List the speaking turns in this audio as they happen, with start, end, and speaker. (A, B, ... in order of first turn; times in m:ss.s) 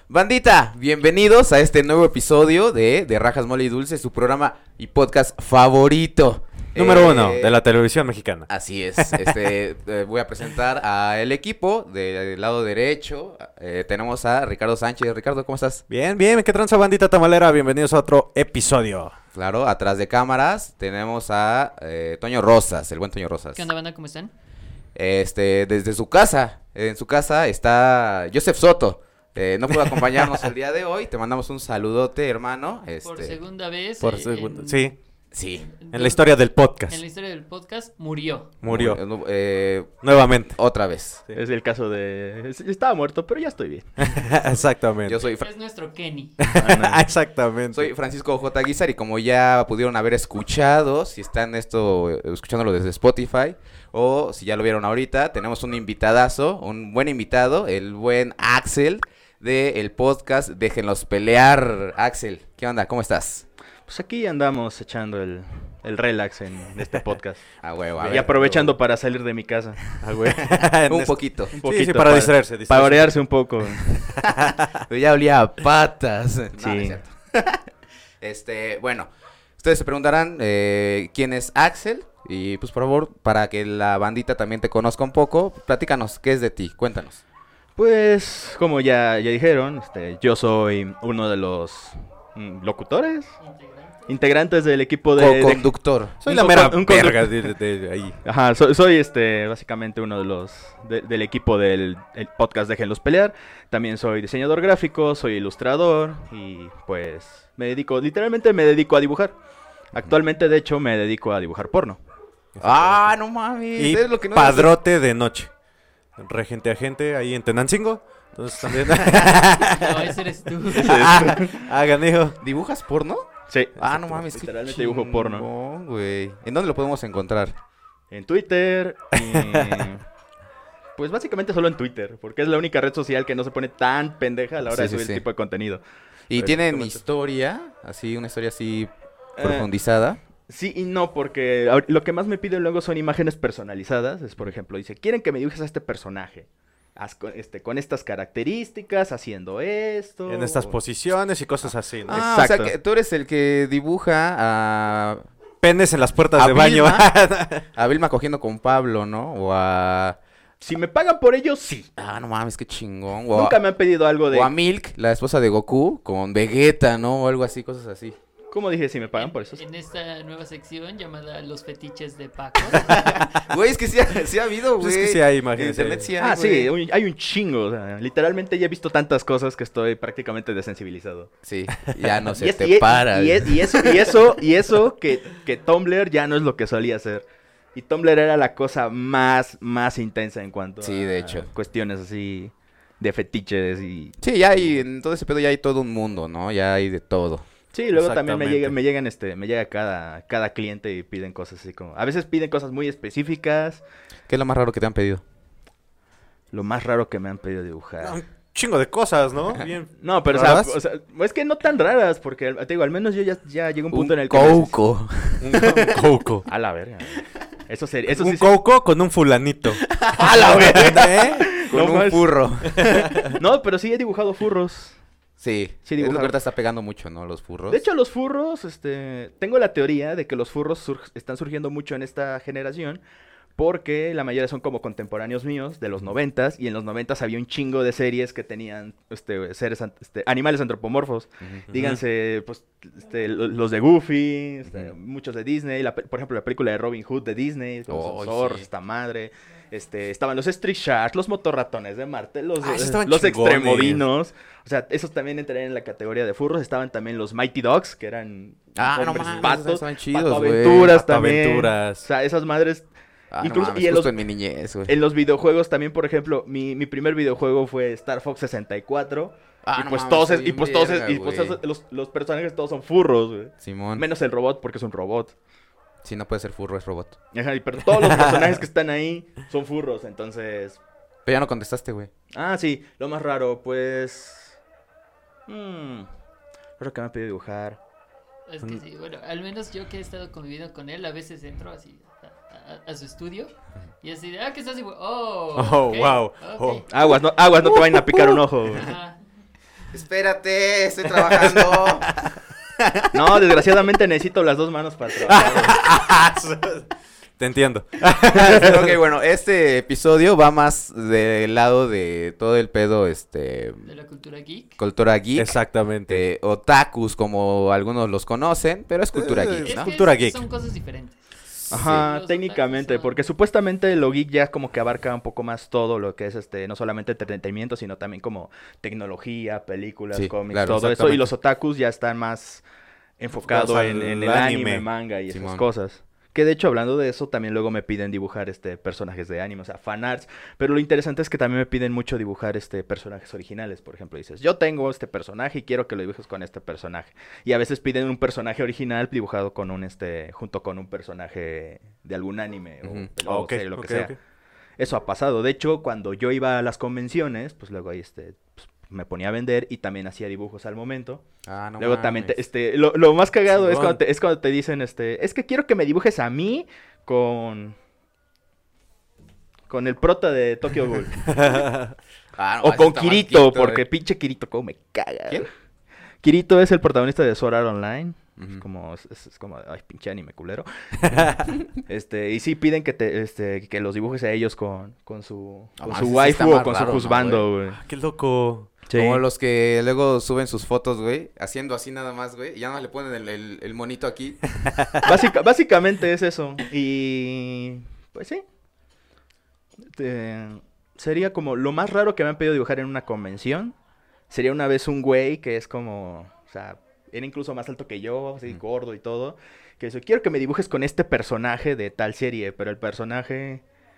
0:00.1-0:07.6 A
0:06.8-0:09.4 B
0:08.5-0:15.8 A
0:15.9-0:19.2 B
0:19.3-0:23.7 A
0:23.5-0:24.3 C
0:25.0-0:33.4 A
0:33.0-0:34.9 C
0:34.0-0:35.0 B
0:35.3-0:35.7 A
0:35.5-0:38.5 C
0:35.9-0:37.0 B
0:38.6-0:39.0 B
0:38.6-0:41.2 A
0:40.0-0:40.6 B
0:41.4-0:44.1 D
0:44.0-0:45.2 B
0:45.0-0:45.5 A
0:45.2-0:46.4 C
0:46.4-0:47.9 B
0:46.5-0:47.1 D
0:47.7-1:03.5 A
1:03.9-1:07.4 D
1:07.6-1:08.7 A
1:08.0-1:08.7 B
1:08.0-1:09.9 D
1:10.0-1:13.2 B
1:10.8-1:11.6 A
1:11.6-1:14.0 D
1:14.2-1:17.6 A
1:14.2-1:14.7 B
1:16.5-1:17.0 D
1:18.2-1:27.2 A
1:27.8-1:33.4 D
1:33.4-1:34.1 C
1:34.1-1:35.7 D
1:35.2-1:37.2 A
1:36.2-1:38.2 B
1:36.2-1:37.2 D
1:38.2-1:49.4 D
1:49.9-1:52.0 D
1:52.6-1:53.1 B
1:52.6-1:54.8 A
1:53.8-1:55.5 B
1:56.2-2:00.1 B
1:58.9-1:59.3 A
1:59.6-2:01.0 C
2:00.7-2:02.4 B
2:00.7-2:01.6 D
2:02.4-2:07.6 A
2:03.5-2:05.5 D
2:08.1-2:10.0 D
2:09.2-2:09.9 B
2:11.0-2:15.8 D
2:14.7-2:15.2 A
2:16.3-2:20.2 A
2:16.4-2:17.0 D
2:19.4-2:19.7 D
2:20.5-2:30.8 D
2:30.3-2:32.2 B
2:32.1-2:35.2 A
2:32.1-2:32.7 D
2:35.6-2:37.6 B
2:36.4-2:37.1 A
2:37.8-2:40.2 A
2:40.6-2:41.9 D
2:42.0-2:43.6 A
2:43.3-2:44.5 D
2:44.3-2:48.2 A
2:48.5-2:49.6 D
2:49.2-2:53.1 C
2:52.9-2:56.7 A
2:54.8-2:56.1 B
2:56.2-3:01.3 D
3:01.4-3:04.2 A
3:01.8-3:02.0 B
3:02.4-3:14.2 D
3:10.8-3:11.5 A
3:14.2-3:17.4 A
3:17.7-3:23.8 D
3:17.9-3:18.8 B
3:24.3-3:25.2 A
3:26.5-3:28.2 D
3:28.0-3:30.7 B
3:30.0-3:34.7 D
3:30.3-3:30.7 A
3:33.9-3:35.9 A
3:35.4-3:36.5 B
3:36.5-3:38.5 D
3:38.1-3:41.6 B
3:40.0-3:43.3 A
3:40.2-3:42.3 D
3:42.6-3:43.4 B
3:43.3-3:45.0 D
3:45.4-3:47.8 A
3:45.9-3:46.4 D
3:47.7-3:53.0 D
3:53.6-4:22.9 D
4:01.4-4:01.7 A
4:01.7-4:02.0 B
4:04.7-4:04.9 A
4:07.9-4:08.7 A
4:12.6-4:14.0 B
4:18.8-4:20.9 A
4:20.7-4:22.1 B
4:23.3-4:25.0 A
4:23.4-4:24.2 D
4:24.9-4:35.4 D
4:29.6-4:31.6 A
4:33.6-4:34.1 A
4:36.0-4:37.2 A
4:37.3-4:40.8 D
4:41.3-4:42.1 A
4:42.3-4:44.6 D
4:45.5-4:46.1 D
4:46.8-4:47.8 D
4:48.5-4:56.9 C
4:55.6-4:58.3 B
4:56.9-4:58.9 D
4:58.7-4:59.2 C
4:59.9-5:02.2 A
5:01.2-5:02.4 B
5:02.8-5:03.4 A
5:03.1-5:05.7 D
5:05.3-5:06.9 B
5:07.4-5:09.0 B
5:08.2-5:13.9 A
5:13.8-5:14.8 C
5:14.8-5:19.9 A
5:15.4-5:16.2 B
5:19.1-5:20.4 B
5:19.6-5:21.2 C
5:21.7-5:32.6 D
5:21.7-5:22.1 A
5:21.8-5:23.2 C
5:30.1-5:31.3 A
5:33.2-5:54.2 D
5:33.4-5:34.8 B
5:35.3-5:35.6 A
5:53.2-5:54.2 B
5:54.8-6:01.2 D
6:01.5-6:02.4 A
6:01.8-6:07.8 D
6:03.5-6:04.0 B
6:09.7-6:11.6 D
6:11.3-6:11.9 B
6:12.4-6:13.8 A
6:12.6-6:15.5 D
6:16.2-6:20.7 D
6:18.4-6:18.6 A
6:21.0-6:21.4 B
6:21.8-6:27.8 D
6:25.8-6:27.5 A
6:27.8-6:28.7 B
6:28.9-6:29.2 D
6:28.9-6:34.6 A
6:34.7-6:35.0 B
6:35.0-6:38.4 D
6:39.9-6:43.8 D
6:44.3-6:53.6 D